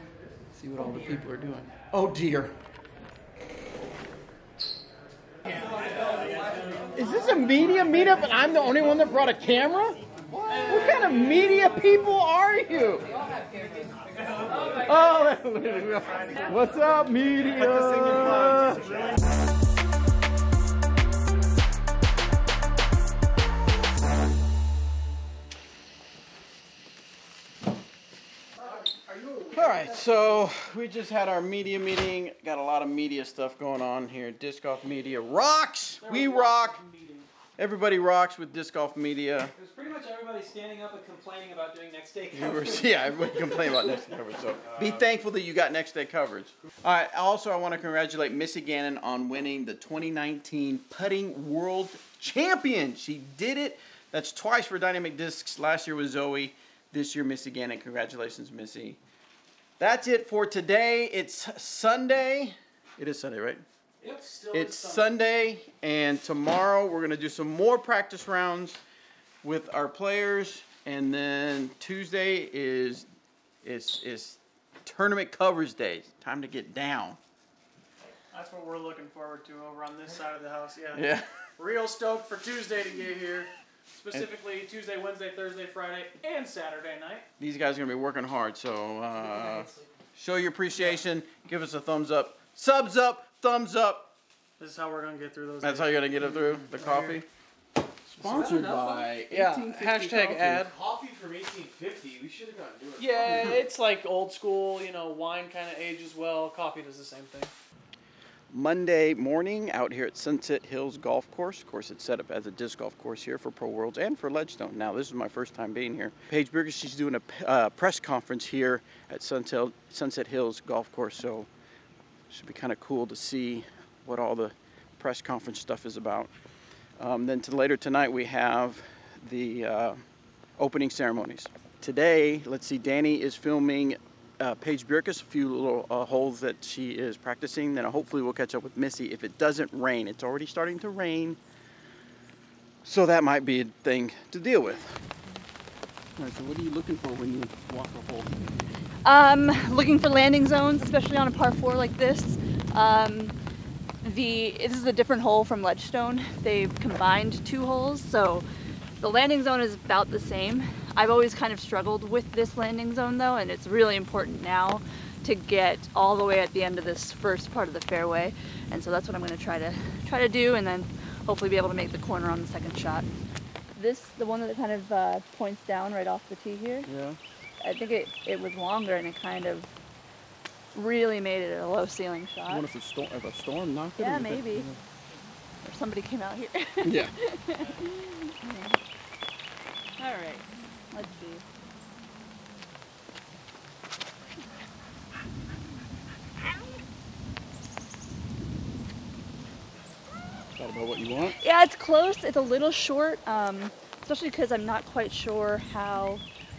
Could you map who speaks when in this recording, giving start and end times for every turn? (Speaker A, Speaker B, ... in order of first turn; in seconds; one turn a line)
Speaker A: 0.5-2.5
Speaker B: 6.3-6.8
Speaker A: 6.9-10.0
Speaker A: 10.5-13.0
Speaker B: 14.4-14.7
Speaker A: 14.6-19.1
Speaker B: 17.5-19.1
Speaker B: 28.6-30.0
Speaker C: 29.5-30.4
Speaker A: 29.5-36.8
Speaker B: 36.0-37.3
Speaker A: 37.6-39.5
Speaker C: 39.5-43.9
Speaker A: 42.3-59.0
Speaker A: 59.8-63.6
Speaker C: 64.0-65.1
Speaker A: 64.5-68.8
Speaker A: 69.4-73.1
Speaker A: 73.6-77.2
Speaker B: 78.0-87.3
Speaker A: 80.9-81.2
Speaker A: 87.4-94.1
Speaker C: 89.2-89.6
Speaker B: 94.6-97.2
Speaker A: 95.6-97.3
Speaker A: 98.1-99.6
Speaker C: 98.2-100.5
Speaker B: 99.3-100.7
Speaker D: 100.6-103.3
Speaker B: 103.0-107.5
Speaker A: 108.5-121.5
Speaker A: 122.3-126.3
Speaker A: 127.0-130.0
Speaker A: 130.6-141.4
Speaker A: 142.8-145.0
Speaker A: 146.2-148.3
Speaker E: 149.0-153.3
Speaker E: 154.0-158.4
Speaker E: 159.0-173.1
Speaker E: 173.7-176.9
Speaker A: 176.9-177.2
Speaker E: 177.6-179.7
Speaker E: 180.7-182.6
Speaker A: 182.5-184.8
Speaker E: 184.0-184.7
Speaker E: 185.6-188.8
Speaker A: 186.8-187.1
Speaker E: 190.0-191.4
Speaker A: 200.6-201.3
Speaker E: 201.4-206.2